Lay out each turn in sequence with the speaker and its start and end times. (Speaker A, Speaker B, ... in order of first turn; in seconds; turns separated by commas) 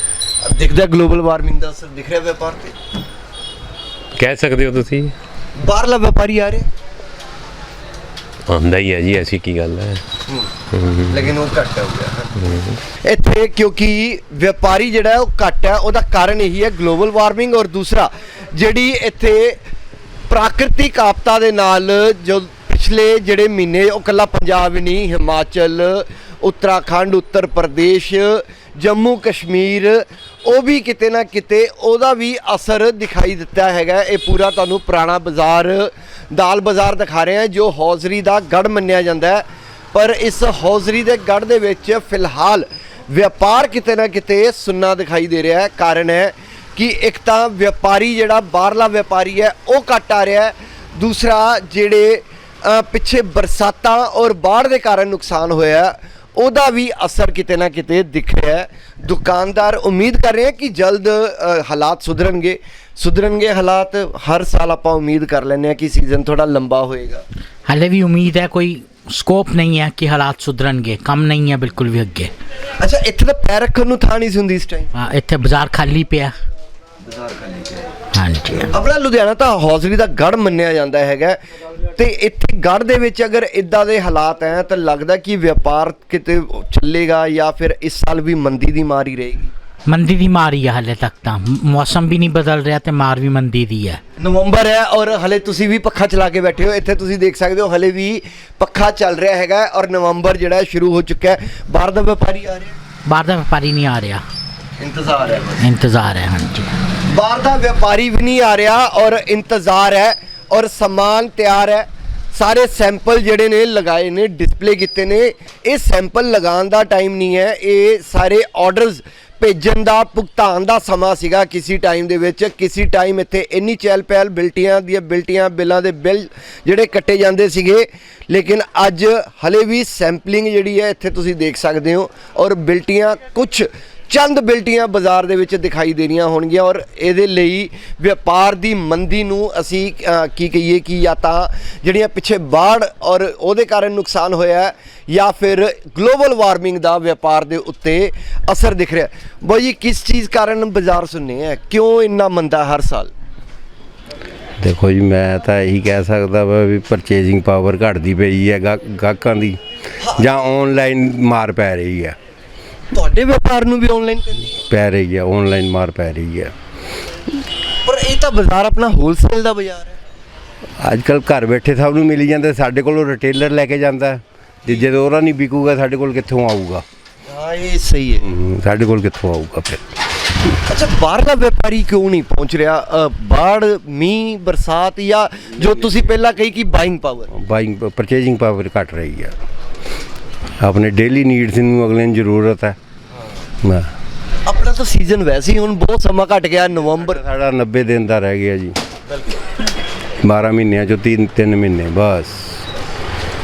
Speaker A: 0.4-2.7, Speaker B: 4.2-5.1, Speaker A: 5.6-6.7, Speaker B: 8.5-10.0, Speaker B: 10.7-11.3, Speaker A: 11.1-12.3, Speaker B: 12.3-12.8, Speaker A: 13.0-19.6, Speaker A: 20.3-67.2, Speaker C: 67.7-72.3, Speaker A: 72.8-74.9, Speaker C: 74.9-76.3, Speaker A: 77.1-77.9, Speaker C: 78.1-78.7, Speaker A: 78.7-81.4, Speaker A: 81.9-89.5, Speaker C: 89.9-94.0, Speaker A: 94.2-102.7, Speaker C: 103.1-104.2, Speaker A: 104.8-105.7, Speaker C: 105.6-106.8, Speaker A: 107.1-153.1, Speaker D: 154.6-159.6, Speaker A: 160.0-160.3, Speaker D: 160.2-162.2, Speaker A: 162.9-164.6, Speaker D: 164.7-166.5, Speaker A: 167.8-169.9, Speaker D: 170.8-176.8, Speaker A: 177.3-178.3, Speaker D: 178.2-179.8, Speaker A: 180.7-187.3, Speaker D: 187.3-189.3, Speaker D: 190.6-192.8, Speaker A: 194.4-197.2, Speaker D: 197.1-198.8, Speaker D: 200.2-202.6